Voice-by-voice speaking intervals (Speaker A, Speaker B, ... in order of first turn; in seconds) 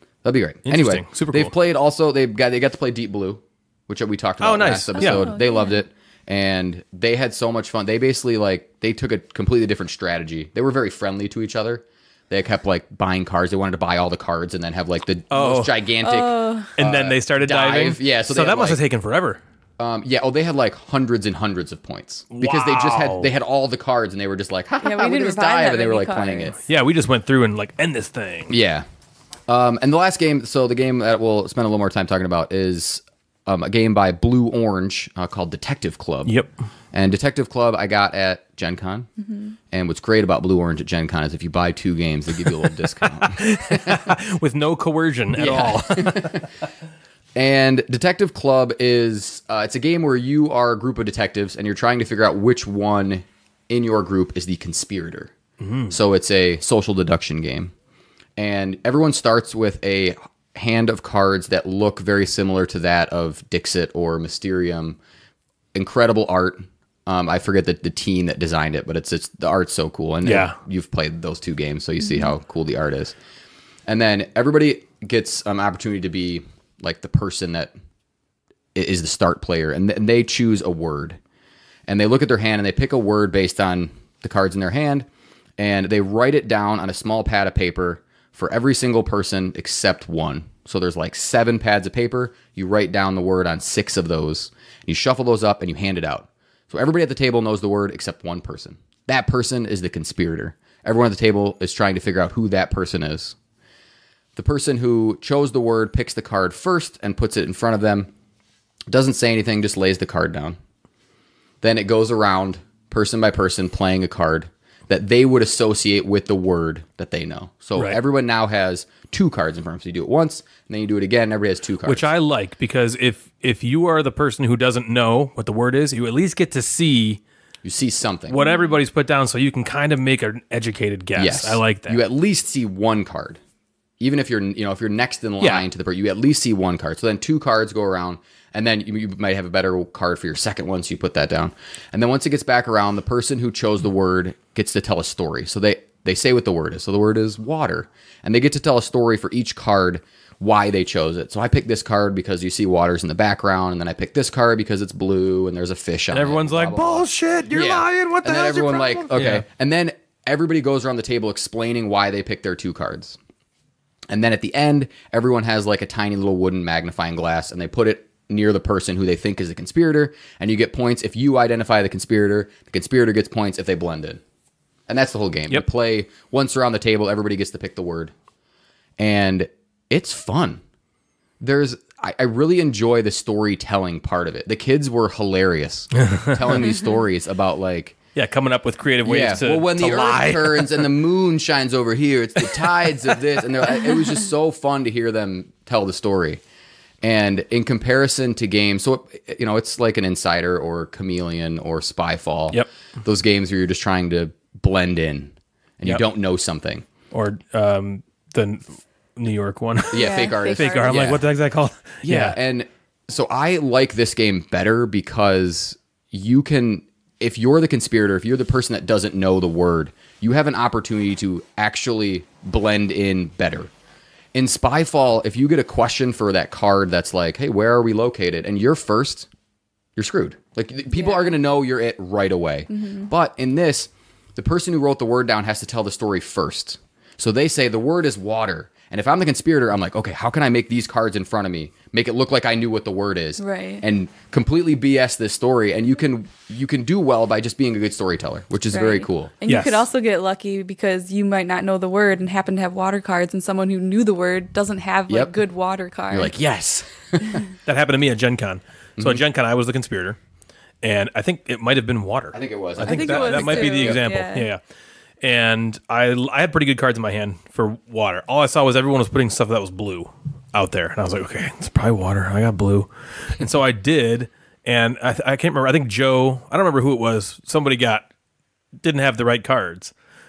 Speaker A: 0.2-18.8, 19.8-26.6, 28.5-28.8, 29.5-36.3, 36.9-39.1, 39.7-44.1, 45.4-46.5, 47.4-55.3, 55.9-57.7, 58.4-65.0, 65.7-73.2, 73.9-77.7, 78.8-81.2, 81.9-85.1, 85.6-103.4, 104.4-108.1, 108.9-110.6, 111.6-122.1, 127.6-128.4, 131.2-133.4, 134.0-163.2, 164.1-174.2, 174.9-178.1, 179.0-180.6, 181.4-188.0, 189.1-196.4, 197.0-206.9, 209.9-211.2, 212.0-223.7, 224.3-229.3, 230.0-249.3, 255.1-255.3, 256.1-257.4, 259.0-259.2, 262.3-264.0
Speaker B: 0.7-1.5, 4.4-5.3, 15.3-15.7, 16.8-19.4, 22.3-23.3, 26.7-28.6, 36.3-36.5, 43.0-46.5, 55.6-56.0, 70.2-70.6, 121.8-127.2, 128.3-132.0, 156.1-159.4, 186.0-186.4, 188.2-190.9, 207.1-212.4, 249.5-249.9, 257.6-260.2, 260.8-264.6, 265.2-278.1, 278.8-279.9
Speaker C: 5.0-5.8, 16.0-16.7, 24.8-26.6, 128.4-128.8, 209.9-211.2, 230.9-231.3, 232.7-233.1, 243.4-243.8, 248.7-256.3, 262.8-264.5